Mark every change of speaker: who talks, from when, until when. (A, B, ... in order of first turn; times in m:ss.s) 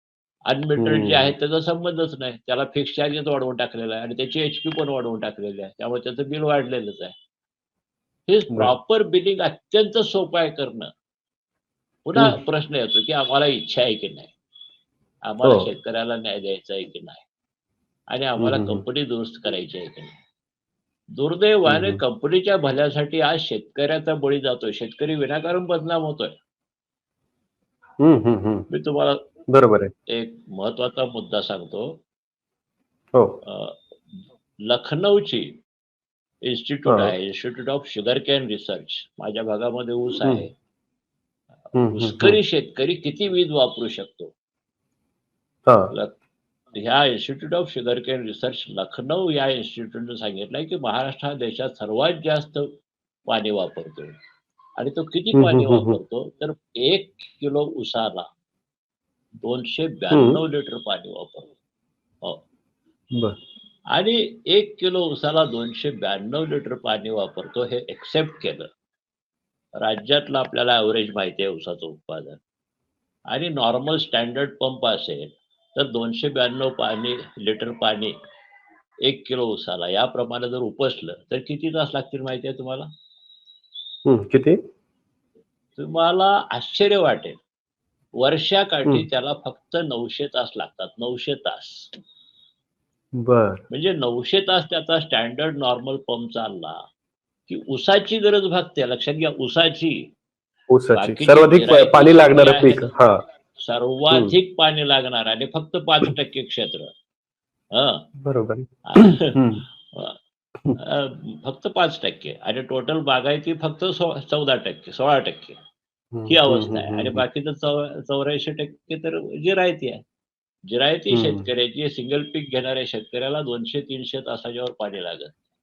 0:00.5-0:07.2 A
0:00.8-0:01.3 B
0:08.3-0:10.9 A
0:12.1-0:14.3 A
0:15.3-0:17.3 A
0:15.4-0:15.7 B
0:18.1-0:20.2 A
0:18.4-0:18.8 B
0:21.2-0:26.4 A
0:21.7-0:22.0 B
0:28.0-0:28.7 B
0:28.7-0:29.2 A
0:29.5-0:29.9 B
0:30.1-0:32.0 A
0:33.4-0:35.6 A
0:36.4-0:40.5 A
0:36.9-0:37.1 B
0:41.8-0:42.4 B
0:41.9-0:44.3 A
0:45.9-0:46.2 A
0:46.7-0:52.7 A
0:53.3-0:54.1 A
0:54.8-0:58.3 A
0:55.3-0:56.0 B
0:59.4-1:01.5 A
1:00.1-1:00.4 B
1:03.9-1:08.7 A
1:09.8-1:12.4 A
1:13.3-1:18.1 A
1:19.0-1:22.9 A
1:24.1-1:24.6 B
1:25.8-1:27.4 A
1:28.2-1:31.9 A
1:33.2-1:33.6 B
1:33.7-1:36.8 A
1:37.5-1:40.1 A
1:40.7-1:43.2 B
1:40.9-1:42.9 A
1:43.6-1:46.9 A
1:44.1-1:44.4 B
1:47.7-1:48.1 A
1:48.2-1:49.6 B
1:48.9-1:49.3 A
1:49.9-1:50.2 A
1:50.8-1:55.6 A
1:56.1-1:57.2 B
1:56.3-2:00.0 A
2:00.7-2:05.4 A
2:01.1-2:01.5 B